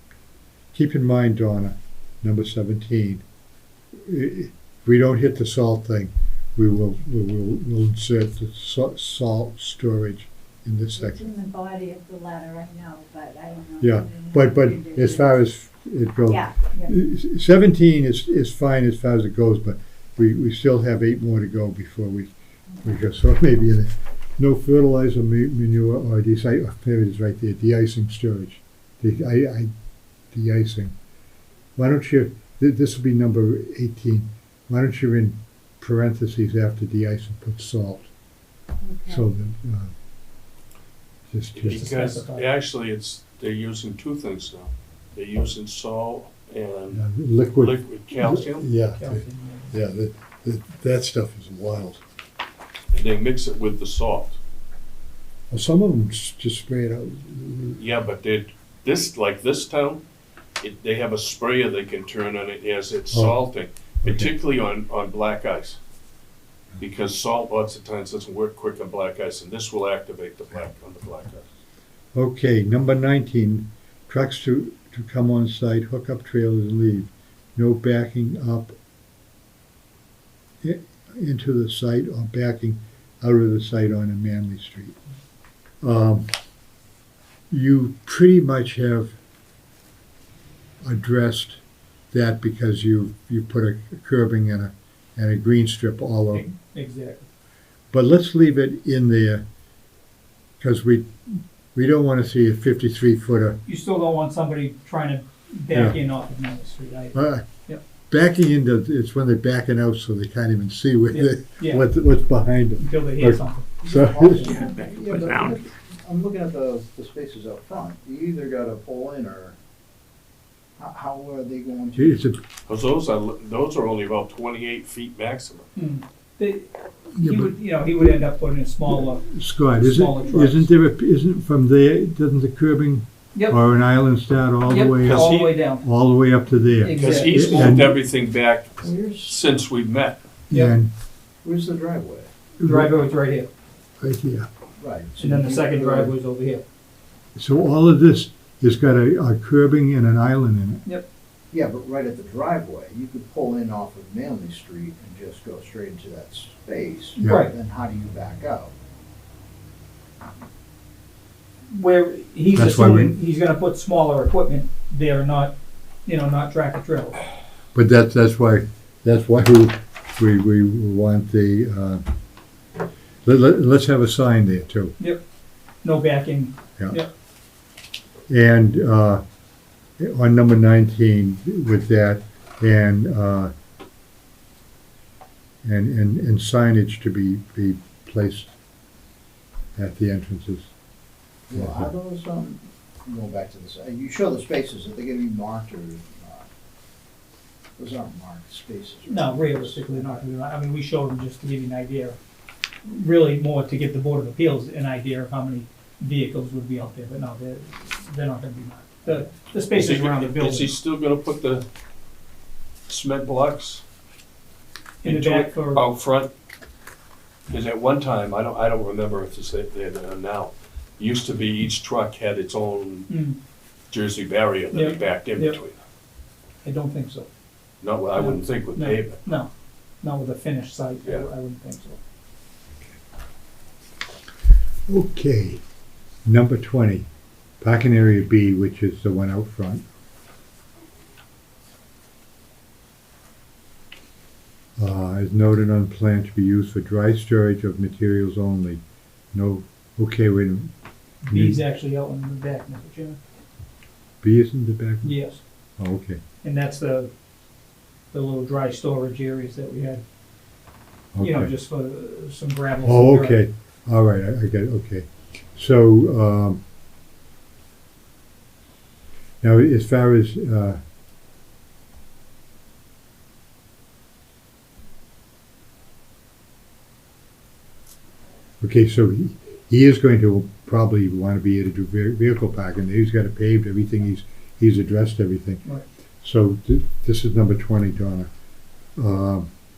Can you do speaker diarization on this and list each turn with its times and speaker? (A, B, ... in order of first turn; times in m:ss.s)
0:00.7-0:03.2 A
0:04.0-0:11.3 A
0:11.0-0:15.3 B
0:13.8-0:29.7 A
0:16.3-0:16.9 B
0:30.3-0:30.9 A
0:31.8-0:38.1 A
0:38.8-0:39.2 B
0:39.1-0:39.9 A
0:41.3-0:41.8 A
0:41.6-0:47.1 C
0:41.7-0:42.5 D
0:46.9-0:52.0 A
0:47.6-0:48.7 C
0:49.0-0:49.8 D
0:52.9-0:54.4 C
0:55.5-0:57.8 A
0:57.8-1:00.0 C
1:00.6-1:05.8 C
1:03.1-1:03.4 A
1:04.0-1:04.3 A
1:06.8-1:11.5 C
1:12.1-1:18.8 A
1:20.6-1:25.0 A
1:25.8-1:26.3 A
1:27.5-1:29.2 A
1:30.8-1:31.6 A
1:32.1-1:36.4 A
1:36.3-1:37.3 D
1:37.9-1:39.4 A
1:40.6-1:43.6 A
1:43.6-1:47.8 D
1:45.7-1:46.0 A
1:47.1-1:47.5 A
1:48.1-1:54.6 A
1:51.1-1:51.9 D
1:52.8-1:53.7 D
1:53.8-1:59.6 E
1:54.4-1:55.7 C
2:00.8-2:02.2 E
2:02.0-2:02.4 A
2:02.7-2:05.7 C
2:05.8-2:10.7 D
2:07.1-2:07.5 A
2:08.9-2:18.0 A
2:14.6-2:15.8 D
2:15.0-2:15.6 C
2:16.8-2:17.8 D
2:16.9-2:20.2 C
2:17.0-2:17.4 E
2:18.8-2:19.4 E
2:20.5-2:20.9 A
2:20.5-2:20.8 D
2:21.4-2:22.3 E
2:22.6-2:22.9 A
2:22.6-2:23.5 D
2:24.0-2:24.5 A
2:24.8-2:26.1 E
2:25.2-2:26.7 D
2:27.4-2:30.8 A
2:31.5-2:38.7 E
2:37.2-2:37.5 D
2:37.2-2:37.5 A
2:41.7-2:47.2 D
2:42.5-2:43.2 A
2:47.8-2:52.0 A
2:53.2-2:55.0 A
2:55.8-2:57.1 D
2:58.3-2:59.2 A
3:00.0-3:03.5 A
3:05.6-3:08.5 A
3:09.8-3:10.7 A
3:11.5-3:16.5 E
3:11.5-3:11.9 A
3:17.8-3:20.2 E
3:19.1-3:22.2 D
3:22.8-3:30.8 D
3:29.7-3:31.6 C
3:32.9-3:33.8 C
3:35.0-3:35.9 D
3:35.0-3:36.3 C
3:37.5-3:43.1 C
3:43.1-3:43.4 D
3:43.9-3:45.8 C
3:44.7-3:45.6 D
3:46.6-3:47.3 D
3:47.8-3:49.2 C
3:48.1-3:49.5 D
3:50.0-3:52.0 D
3:54.9-3:55.6 A
3:56.2-3:57.1 A
3:57.6-3:59.8 A
4:04.8-4:08.8 A
4:09.3-4:10.7 A
4:11.3-4:11.6 A
4:11.3-4:13.2 D
4:14.2-4:15.2 A
4:15.0-4:15.4 D
4:15.8-4:16.2 A
4:16.4-4:17.1 D
4:18.1-4:20.0 D
4:21.1-4:21.5 A
4:21.2-4:23.4 D
4:22.8-4:26.6 A
4:29.4-4:30.8 A
4:38.6-4:45.6 A
4:46.2-4:48.3 A
4:49.0-4:49.5 A